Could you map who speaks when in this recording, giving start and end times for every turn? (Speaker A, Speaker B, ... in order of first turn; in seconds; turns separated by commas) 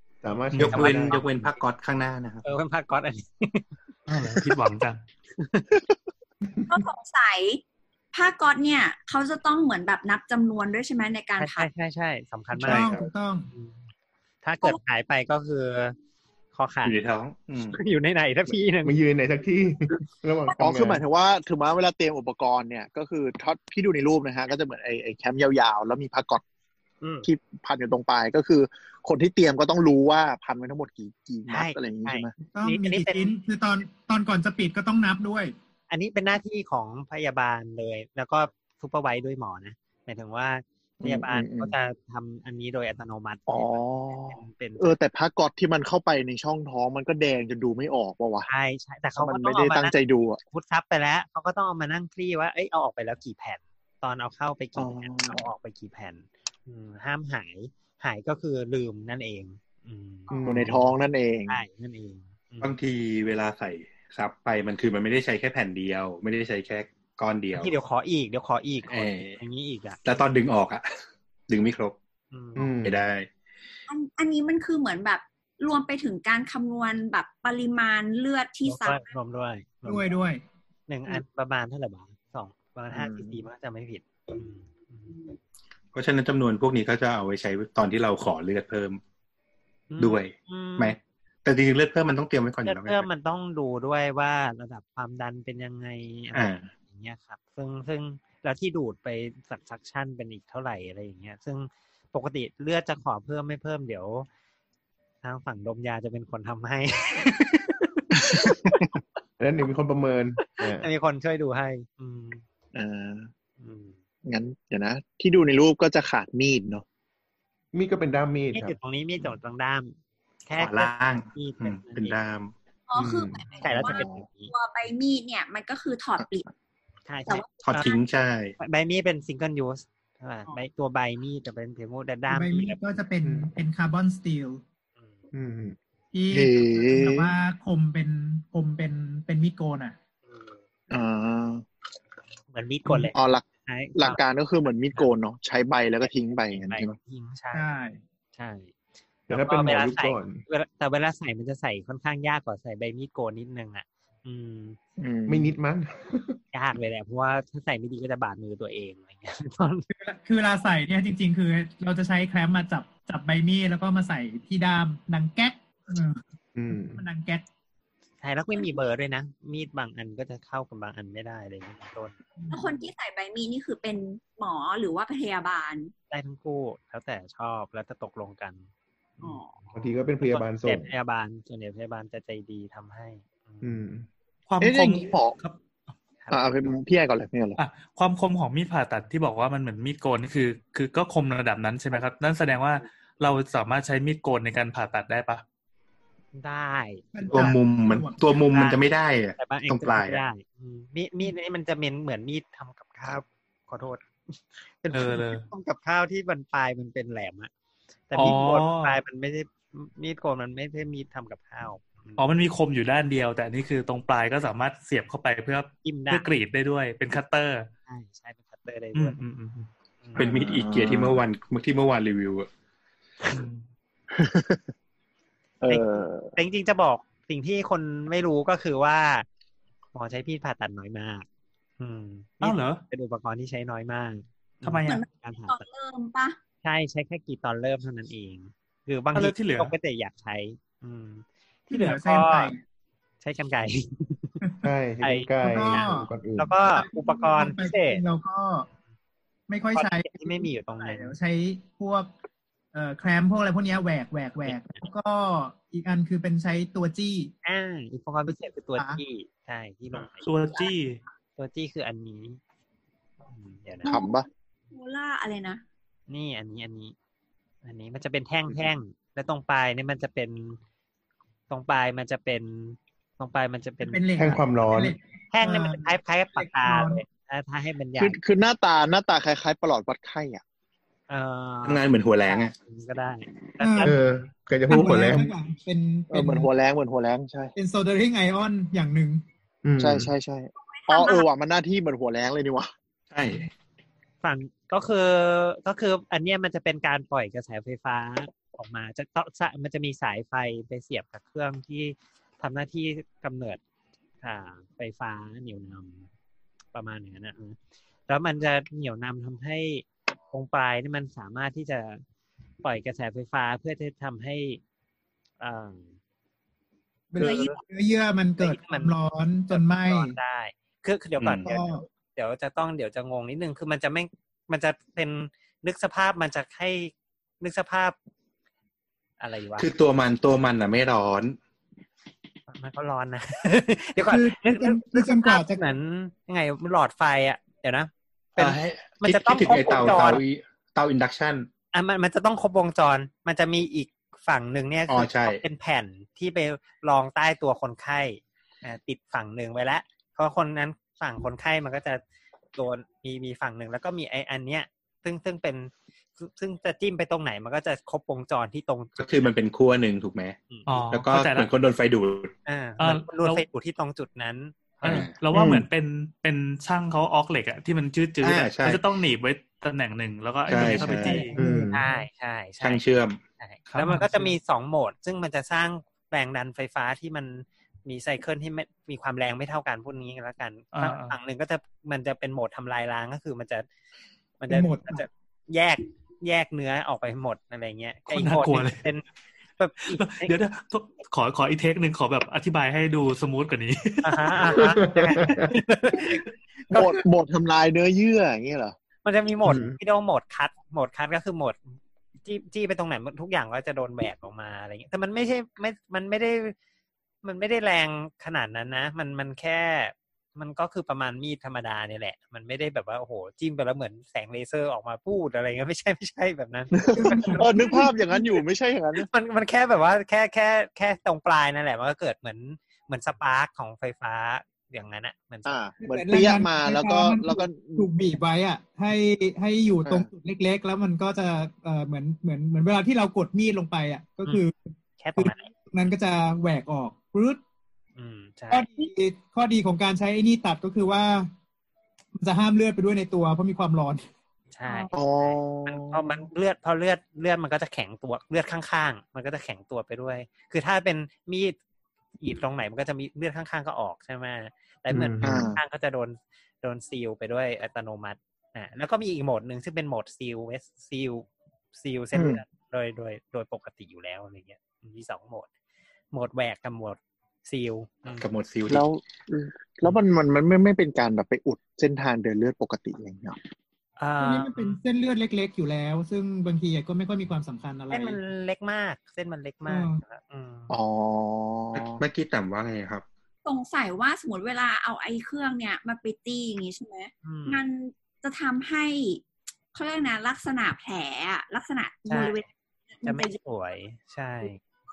Speaker A: 0.2-1.2, Speaker B: 0.5-1.0, Speaker C: 0.6-2.4, Speaker D: 0.6-1.5, Speaker D: 2.4-3.7, Speaker B: 4.1-5.0, Speaker D: 5.4-5.7, Speaker E: 6.7-7.6, Speaker E: 8.1-11.7, Speaker D: 11.4-13.8, Speaker F: 12.5-13.5, Speaker D: 14.4-15.9, Speaker D: 16.5-17.0, Speaker C: 16.8-17.8, Speaker D: 17.7-18.9, Speaker A: 18.8-21.0, Speaker G: 20.5-26.4, Speaker D: 27.0-27.3, Speaker G: 27.2-32.4, Speaker D: 31.5-33.3, Speaker F: 32.5-35.5, Speaker D: 35.9-45.0, Speaker G: 41.0-41.7, Speaker G: 43.5-48.5, Speaker D: 48.5-60.8, Speaker G: 49.1-50.4, Speaker G: 54.8-55.5, Speaker A: 60.3-60.8, Speaker G: 60.4-61.6, Speaker D: 61.5-62.7, Speaker C: 62.6-67.7, Speaker D: 67.5-70.0, Speaker C: 68.8-69.4, Speaker C: 70.0-70.9, Speaker C: 71.5-72.0, Speaker D: 72.3-72.7, Speaker A: 72.5-72.9, Speaker C: 72.8-73.3, Speaker E: 73.9-79.1, Speaker D: 78.6-80.1, Speaker F: 79.8-80.4, Speaker D: 80.9-85.2, Speaker G: 82.9-83.4, Speaker C: 85.9-89.0, Speaker D: 89.9-91.0, Speaker C: 90.0-93.0, Speaker D: 92.6-104.3, Speaker C: 96.3-96.7, Speaker D: 105.2-108.8, Speaker A: 109.4-110.9, Speaker D: 110.6-112.4, Speaker G: 112.7-113.3, Speaker D: 113.6-114.0, Speaker G: 114.2-116.8, Speaker A: 117.7-118.8, Speaker D: 118.5-122.2, Speaker C: 120.6-122.5, Speaker E: 122.9-126.4, Speaker A: 123.0-123.4, Speaker D: 123.6-124.5, Speaker G: 123.7-124.3, Speaker D: 127.0-127.9, Speaker E: 127.3-128.0, Speaker C: 127.6-128.5, Speaker D: 128.6-132.8, Speaker F: 132.3-134.6, Speaker A: 133.2-133.5, Speaker A: 135.3-135.8, Speaker F: 136.1-139.9, Speaker G: 136.3-137.3, Speaker D: 140.3-140.6, Speaker G: 140.9-141.6, Speaker D: 142.5-144.2, Speaker G: 142.9-143.4, Speaker G: 143.9-146.9, Speaker D: 146.5-147.6, Speaker F: 147.5-148.0, Speaker D: 148.3-148.7, Speaker A: 149.3-150.4, Speaker D: 149.3-154.8, Speaker G: 155.0-155.5, Speaker A: 155.3-156.4, Speaker D: 156.5-159.9, Speaker F: 159.9-166.2, Speaker A: 166.6-167.0, Speaker F: 166.7-167.4, Speaker D: 168.2-172.2, Speaker F: 172.4-172.8, Speaker E: 172.5-175.9, Speaker D: 176.1-178.7, Speaker E: 179.2-179.6, Speaker A: 179.7-180.9, Speaker D: 180.2-183.8, Speaker A: 183.6-184.1, Speaker B: 184.5-185.6, Speaker G: 184.6-185.3, Speaker D: 186.2-186.5, Speaker G: 186.3-187.6, Speaker B: 187.6-195.4, Speaker D: 196.3-197.0, Speaker F: 197.1-198.8, Speaker C: 197.3-200.2, Speaker D: 199.4-207.5, Speaker B: 204.9-205.5, Speaker D: 208.1-212.3, Speaker B: 208.1-209.0, Speaker B: 212.2-217.7, Speaker D: 215.8-216.3, Speaker D: 217.9-219.2, Speaker B: 218.9-219.7, Speaker G: 220.2-221.2, Speaker C: 220.2-222.5, Speaker B: 223.3-223.6, Speaker G: 224.1-224.6, Speaker G: 225.6-226.3, Speaker D: 225.7-229.2, Speaker D: 229.9-231.2, Speaker D: 231.8-235.6, Speaker B: 232.4-232.8, Speaker B: 234.6-235.0, Speaker E: 234.8-236.4, Speaker D: 236.6-242.5, Speaker B: 239.1-239.7, Speaker F: 241.7-242.6, Speaker D: 243.2-244.4, Speaker A: 244.6-246.6, Speaker D: 245.0-248.0, Speaker F: 245.4-246.1, Speaker F: 246.7-248.7, Speaker F: 249.5-252.1, Speaker D: 249.7-251.1, Speaker F: 252.7-257.3, Speaker D: 257.4-260.3, Speaker F: 258.3-259.0, Speaker B: 260.2-261.0, Speaker D: 261.4-262.4, Speaker D: 263.3-263.9, Speaker E: 263.8-264.2, Speaker G: 263.9-264.2, Speaker E: 264.7-265.6, Speaker D: 266.1-266.9, Speaker D: 267.6-270.6, Speaker D: 271.5-274.4, Speaker F: 273.8-277.0, Speaker A: 274.2-275.0, Speaker D: 275.3-278.2, Speaker G: 278.0-280.4, Speaker D: 281.1-284.0, Speaker C: 281.6-282.5, Speaker F: 283.6-283.9, Speaker A: 283.8-285.3, Speaker F: 284.7-286.5, Speaker G: 284.8-285.2, Speaker G: 286.1-287.5, Speaker F: 287.6-289.2, Speaker A: 289.6-290.1, Speaker G: 289.8-292.7, Speaker E: 290.6-291.3, Speaker C: 293.1-293.5, Speaker D: 294.2-303.6, Speaker D: 304.2-306.1, Speaker D: 306.7-312.0, Speaker D: 312.6-314.6, Speaker D: 315.4-316.0, Speaker F: 317.1-320.1, Speaker E: 317.2-317.6, Speaker D: 317.2-317.6, Speaker D: 318.4-318.9, Speaker D: 319.5-327.9, Speaker C: 321.2-321.5, Speaker F: 321.4-321.9, Speaker D: 329.2-329.7, Speaker C: 329.6-331.4, Speaker D: 332.5-340.2, Speaker F: 333.9-335.6, Speaker C: 338.4-341.5, Speaker D: 341.7-352.0, Speaker C: 344.9-345.4, Speaker D: 352.5-359.3, Speaker C: 359.0-360.4, Speaker B: 360.7-361.5, Speaker C: 360.9-362.3, Speaker D: 362.4-365.1, Speaker B: 362.8-363.4, Speaker C: 364.8-365.1, Speaker B: 364.8-371.3, Speaker A: 365.3-365.6, Speaker C: 368.2-368.8, Speaker C: 370.5-371.2, Speaker D: 370.5-372.8, Speaker F: 370.6-371.9, Speaker A: 371.4-371.8, Speaker C: 372.6-373.2, Speaker D: 373.4-383.6, Speaker B: 373.7-374.4, Speaker B: 380.7-381.1, Speaker D: 384.4-389.0, Speaker F: 384.5-385.1, Speaker B: 388.1-388.9, Speaker D: 389.6-390.3, Speaker B: 389.9-394.7, Speaker D: 394.0-396.7, Speaker A: 394.5-395.5, Speaker G: 396.7-398.8, Speaker D: 399.0-401.6, Speaker A: 399.4-399.8, Speaker D: 402.2-406.5, Speaker D: 407.2-417.7, Speaker G: 416.8-419.1, Speaker F: 416.9-418.2, Speaker D: 418.9-425.6, Speaker G: 425.4-427.9, Speaker F: 425.8-437.4, Speaker D: 435.0-435.5, Speaker D: 437.9-438.7, Speaker F: 438.5-441.3, Speaker F: 442.1-444.1, Speaker D: 444.5-451.6, Speaker G: 444.9-446.1, Speaker D: 452.2-465.5, Speaker A: 454.9-455.5, Speaker G: 455.2-455.6, Speaker G: 462.1-462.4, Speaker D: 466.1-468.3, Speaker C: 468.2-468.8, Speaker G: 468.7-473.4, Speaker D: 474.0-474.8, Speaker F: 474.2-478.2, Speaker D: 477.9-480.7, Speaker F: 479.6-480.0, Speaker G: 480.7-482.0, Speaker C: 481.7-483.0, Speaker E: 483.4-493.4, Speaker D: 487.2-487.6, Speaker D: 492.1-492.4, Speaker D: 493.0-494.6